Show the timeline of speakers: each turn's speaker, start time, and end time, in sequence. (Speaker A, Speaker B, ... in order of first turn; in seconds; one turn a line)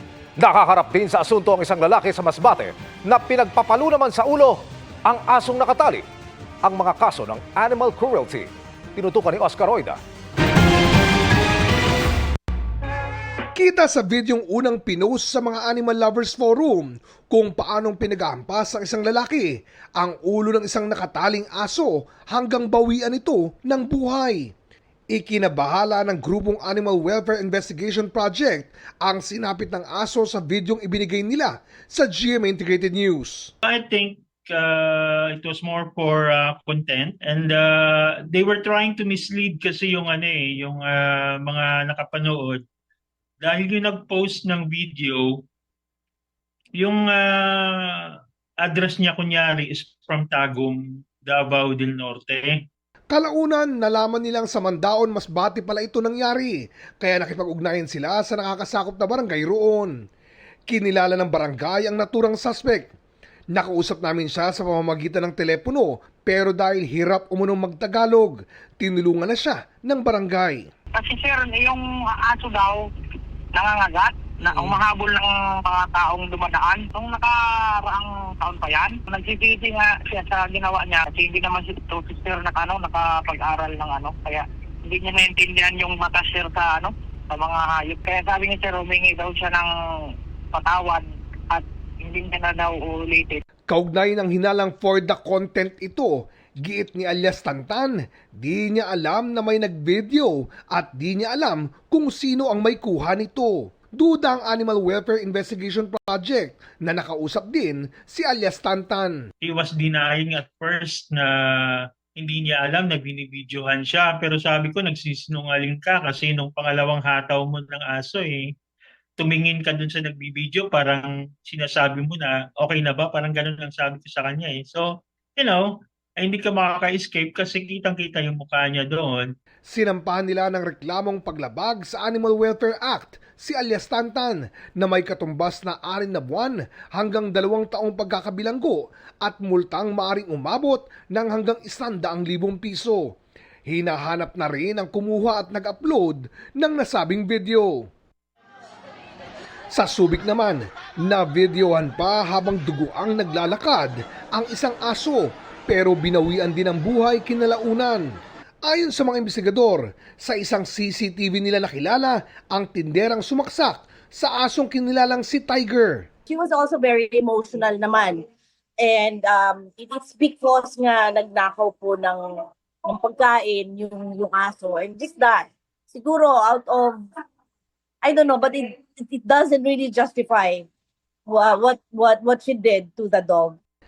Speaker A: 0.4-6.0
Speaker A: 6.6-10.0
Speaker B: 13.5-24.5
Speaker B: 25.1-33.5
Speaker C: 33.6-42.6
Speaker C: 43.4-45.4
Speaker C: 46.8-52.5
Speaker B: 53.1-59.9
Speaker B: 60.7-62.9
Speaker B: 63.5-70.7
Speaker D: 70.9-72.8
Speaker D: 73.5-89.7
Speaker D: 90.5-93.4
Speaker B: 93.7-109.2
Speaker C: 109.4-118.5
Speaker C: 119.2-129.3
Speaker B: 129.7-143.1
Speaker B: 143.7-147.9
Speaker B: 149.7-166.1
Speaker E: 166.3-168.2
Speaker E: 168.8-172.2
Speaker E: 172.9-177.0
Speaker E: 178.0-180.7
Speaker E: 181.2-183.6